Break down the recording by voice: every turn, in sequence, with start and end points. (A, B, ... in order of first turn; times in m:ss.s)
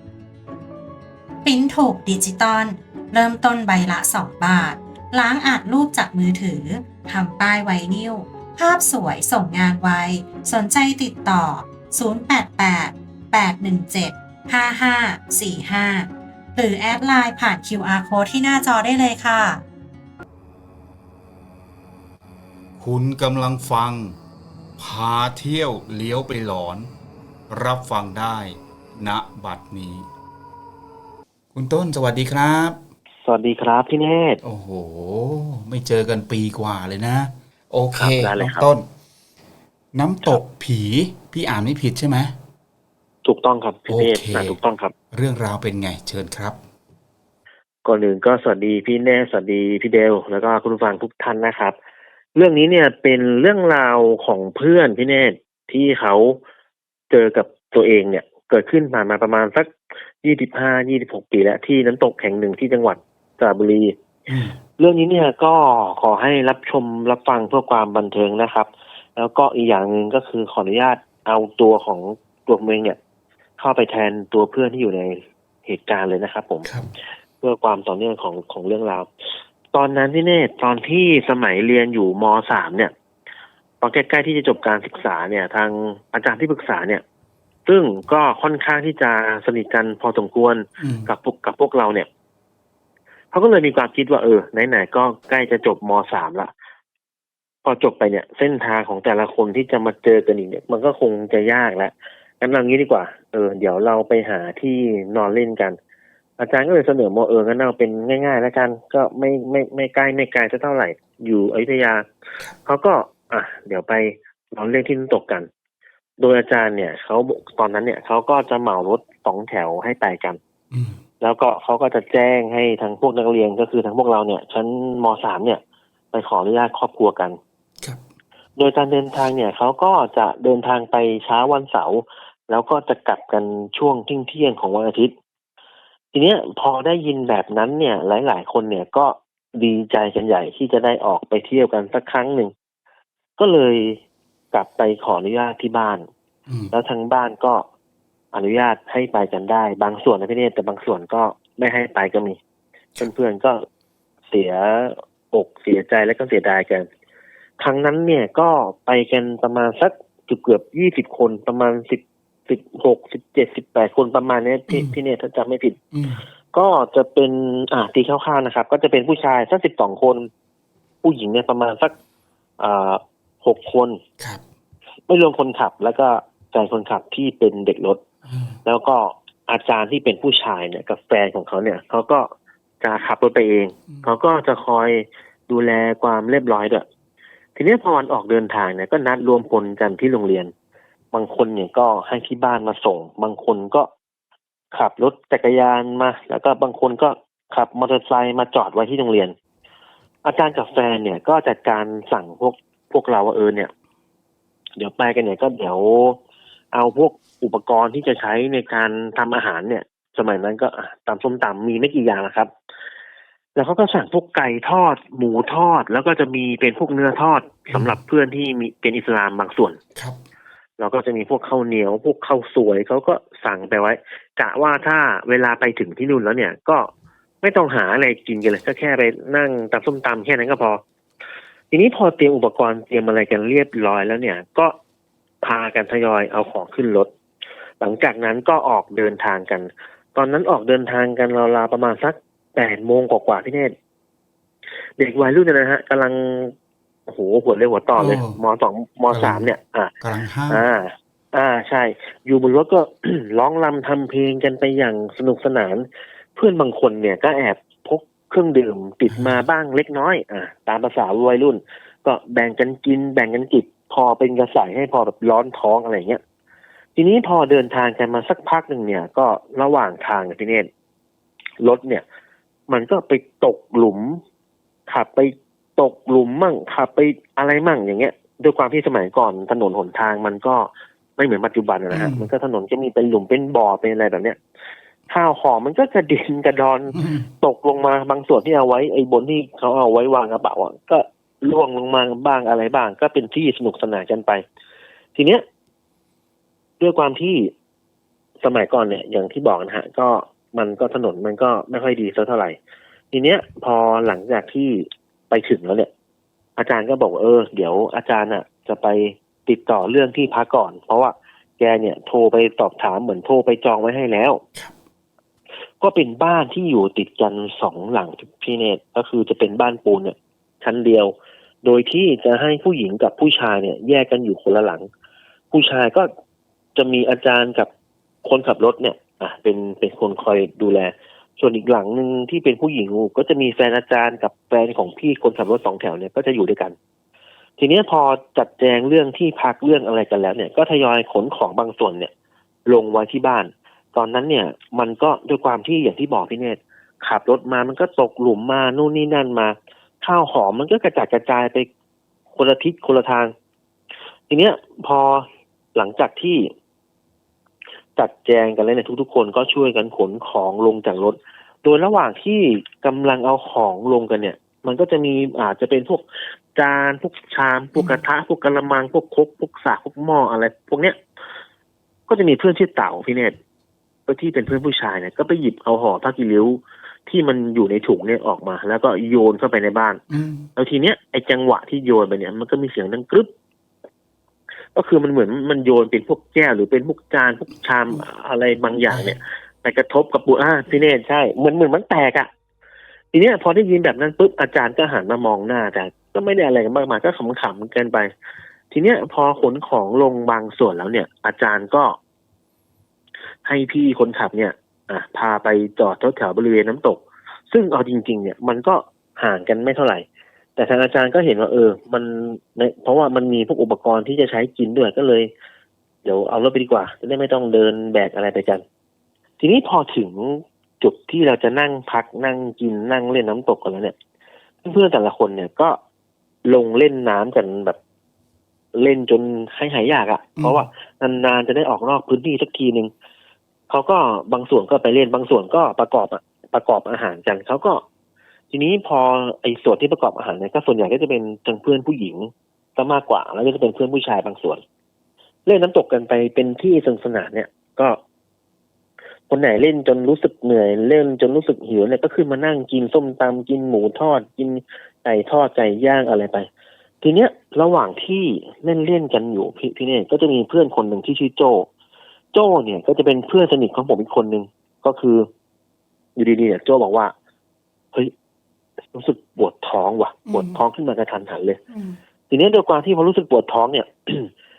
0:01.4-0:19.6 A
0:22.8-0:24.2 B
0:24.8-0:26.9 B
0:27.5-0:30.1 B
0:31.5-0:32.8 B
0:33.2-0:34.4 C
0:34.4-0:38.8 B
0:37.9-0:38.6 C
0:39.9-0:42.3 B
0:43.2-0:44.9 C
0:43.9-0:44.6 B
0:45.1-0:46.6 B
0:47.8-0:51.7 C
0:52.3-0:56.4 C
0:57.1-1:03.9 C
1:04.3-1:04.5 B
1:04.8-1:13.0 C
1:13.6-1:16.7 C
1:17.4-1:19.1 C
1:19.7-1:22.9 C
1:23.8-1:27.0 C
1:27.6-1:32.1 C
1:30.8-1:31.1 B
1:33.3-1:36.5 C
1:37.6-1:45.8 C
1:46.4-1:52.0 C
1:52.6-1:55.5 C
1:56.2-2:00.4 C
2:00.7-2:01.0 B
2:01.2-2:05.6 C
2:06.1-2:07.4 C
2:08.6-2:15.1 C
2:16.1-2:22.5 C
2:23.4-2:24.0 C
2:24.5-2:26.1 C
2:26.5-2:26.7 B
2:26.7-2:27.6 C
2:28.3-2:32.4 C
2:33.0-2:33.6 C
2:34.3-2:36.9 C
2:37.6-2:45.8 C
2:44.7-2:45.0 B
2:45.9-2:46.2 B
2:46.5-2:50.3 C
2:51.0-2:51.9 C
2:52.6-2:54.0 C
2:55.1-2:58.0 C
2:58.3-2:58.6 B
2:58.6-3:02.3 C
3:02.8-3:06.8 C
3:07.6-3:10.5 C
3:11.1-3:13.9 C
3:14.7-3:19.3 C
3:20.2-3:23.7 C
3:24.8-3:26.2 C
3:26.7-3:32.5 C
3:33.6-3:39.8 C
3:40.8-3:46.9 C
3:47.4-3:50.8 C
3:51.7-3:54.7 C
3:55.4-3:57.1 C
3:57.8-4:03.7 C
4:05.0-4:06.5 C
4:07.1-4:09.9 C
4:08.0-4:08.4 B
4:09.1-4:09.5 B
4:10.0-4:10.6 B
4:10.5-4:26.2 C
4:19.1-4:19.4 B
4:27.0-4:30.7 C
4:31.6-4:32.0 C
4:32.7-4:34.2 C
4:34.9-4:44.4 C
4:41.9-4:42.3 B
4:45.1-4:54.4 C
4:46.9-4:47.3 B
4:55.1-4:55.4 C
4:56.8-4:57.5 C
4:58.4-5:02.6 C
5:03.1-5:05.9 C
5:06.6-5:14.4 C
5:15.8-5:24.8 C
5:25.5-5:26.1 C
5:26.8-5:27.7 C
5:28.2-5:36.8 C
5:37.6-5:42.1 C
5:42.7-5:51.7 C
5:52.3-5:53.3 C
5:54.3-5:56.5 C
5:58.0-6:11.0 C
6:12.1-6:13.4 C
6:14.1-6:20.0 C
6:20.1-6:20.5 B
6:20.6-6:23.3 C
6:24.7-6:32.3 C
6:28.9-6:29.2 B
6:33.1-6:38.1 C
6:38.7-6:42.0 C
6:43.4-6:50.0 C
6:50.6-6:55.3 C
6:56.0-6:58.6 C
6:59.4-7:03.9 C
7:04.6-7:05.8 C
7:06.4-7:07.8 C
7:08.7-7:12.9 C
7:10.4-7:10.6 B
7:13.7-7:17.8 C
7:18.5-7:24.6 C
7:25.4-7:28.0 C
7:29.3-7:36.5 C
7:37.0-7:41.7 C
7:42.3-7:45.3 C
7:46.2-7:47.1 C
7:48.9-7:51.6 C
7:50.3-7:50.6 B
7:51.7-7:52.0 B
7:52.3-7:54.3 C